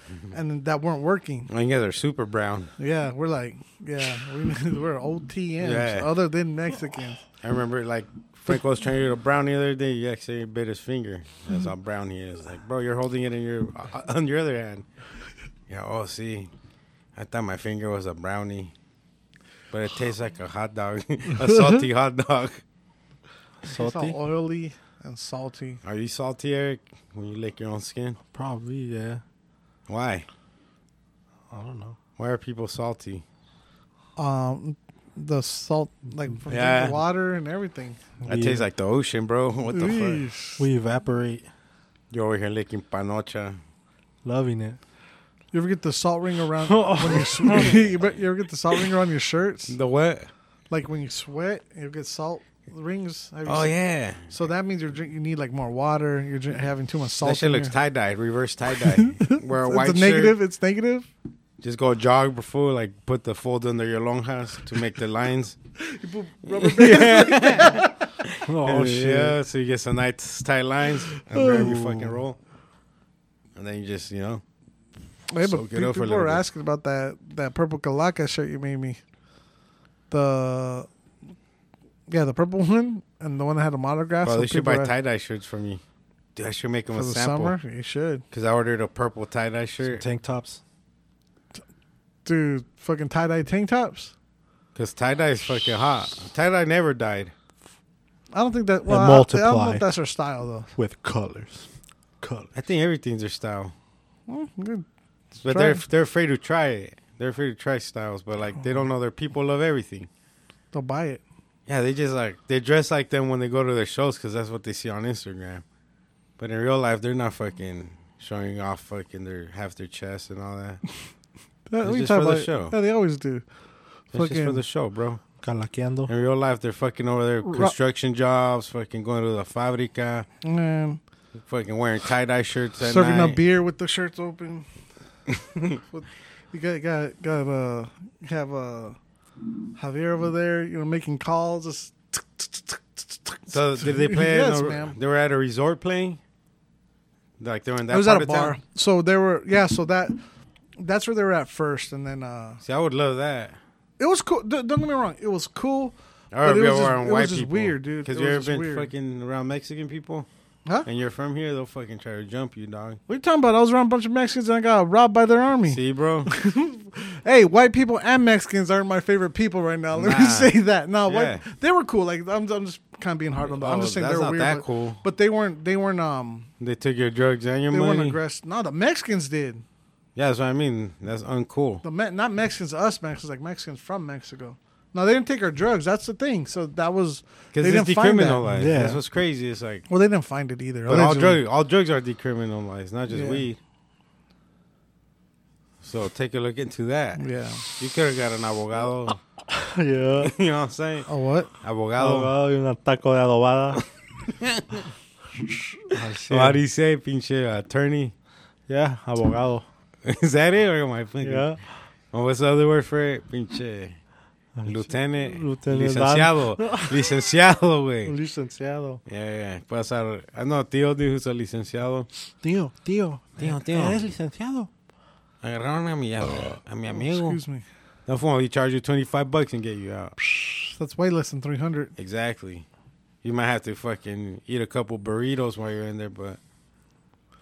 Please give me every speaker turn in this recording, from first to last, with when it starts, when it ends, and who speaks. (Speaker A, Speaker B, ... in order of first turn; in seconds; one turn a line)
Speaker A: 0.3-1.5
Speaker B: 1.5-2.7
Speaker A: 2.8-7.2
Speaker B: 5.6-6.1
Speaker B: 7.4-14.8
Speaker B: 15.7-16.5
Speaker B: 17.2-18.7
Speaker B: 19.7-22.6
Speaker C: 23.6-24.2
Speaker A: 23.7-25.8
Speaker B: 25.8-28.2
Speaker C: 28.3-29.2
Speaker B: 29.9-30.3
Speaker C: 31.5-32.0
Speaker B: 32.2-33.2
Speaker A: 34.2-38.2
Speaker B: 36.5-37.0
Speaker C: 38.2-38.6
Speaker B: 38.3-40.2
Speaker A: 39.7-40.7
Speaker C: 40.6-41.5
Speaker B: 42.1-43.6
Speaker C: 44.2-44.8
Speaker A: 45.5-49.8
Speaker C: 46.6-47.9
Speaker B: 49.7-50.3
Speaker A: 50.7-57.8
Speaker B: 53.5-54.3
Speaker B: 57.2-60.4
Speaker A: 58.8-61.1
Speaker B: 61.6-65.6
Speaker A: 65.8-68.0
Speaker B: 66.5-72.4
Speaker C: 68.5-69.4
Speaker C: 71.4-72.2
Speaker B: 73.6-74.4
Speaker A: 75.3-79.0
Speaker B: 75.4-76.4
Speaker A: 80.1-80.9
Speaker A: 82.1-84.9
Speaker B: 84.2-85.8
Speaker B: 86.4-87.5
Speaker A: 86.9-88.2
Speaker B: 88.3-90.0
Speaker C: 89.8-90.6
Speaker A: 92.2-94.1
Speaker B: 94.8-97.3
Speaker A: 98.3-100.7
Speaker C: 98.9-99.8
Speaker C: 100.8-102.5
Speaker B: 102.5-103.7
Speaker A: 104.3-104.9
Speaker B: 105.4-110.1
Speaker A: 105.5-105.8
Speaker A: 110.7-111.2
Speaker B: 111.7-115.6
Speaker B: 116.4-120.8
Speaker A: 121.7-123.5
Speaker B: 121.8-122.8
Speaker A: 124.1-124.6
Speaker B: 124.1-125.2
Speaker C: 125.4-126.1
Speaker B: 126.1-130.3
Speaker A: 127.4-127.7
Speaker A: 130.4-131.0
Speaker B: 131.4-133.4
Speaker A: 132.8-134.7
Speaker B: 135.3-135.8
Speaker A: 135.9-139.0
Speaker A: 139.8-144.9
Speaker B: 143.5-146.2
Speaker B: 147.4-148.6
Speaker A: 147.9-150.2
Speaker A: 150.8-152.6
Speaker B: 152.6-153.6
Speaker A: 154.0-158.9
Speaker B: 156.3-160.3
Speaker B: 160.8-163.0
Speaker A: 163.1-176.5
Speaker B: 165.7-166.3
Speaker B: 169.9-170.5
Speaker B: 171.1-171.4
Speaker B: 173.4-175.0
Speaker B: 176.6-178.2
Speaker A: 177.7-179.6
Speaker B: 180.2-181.8
Speaker A: 181.8-188.9
Speaker B: 187.6-189.9
Speaker C: 188.5-189.0
Speaker A: 189.9-191.4
Speaker B: 190.9-193.6
Speaker A: 193.1-193.5
Speaker B: 195.8-199.2
Speaker A: 197.2-197.7
Speaker C: 199.5-200.3
Speaker B: 200.2-201.1
Speaker A: 201.1-201.5
Speaker B: 201.6-202.3
Speaker C: 202.0-203.8
Speaker B: 204.4-204.8
Speaker C: 205.9-206.6
Speaker B: 206.3-208.1
Speaker C: 208.7-209.7
Speaker B: 210.1-211.5
Speaker C: 211.2-211.6
Speaker B: 212.1-214.0
Speaker C: 214.6-217.1
Speaker B: 214.7-218.2
Speaker C: 218.1-219.0
Speaker B: 219.1-222.1
Speaker C: 222.4-224.7
Speaker B: 223.4-224.1
Speaker B: 225.4-227.4
Speaker A: 226.9-227.7
Speaker B: 228.1-230.2
Speaker A: 230.2-231.9
Speaker B: 232.0-232.7
Speaker B: 233.2-236.4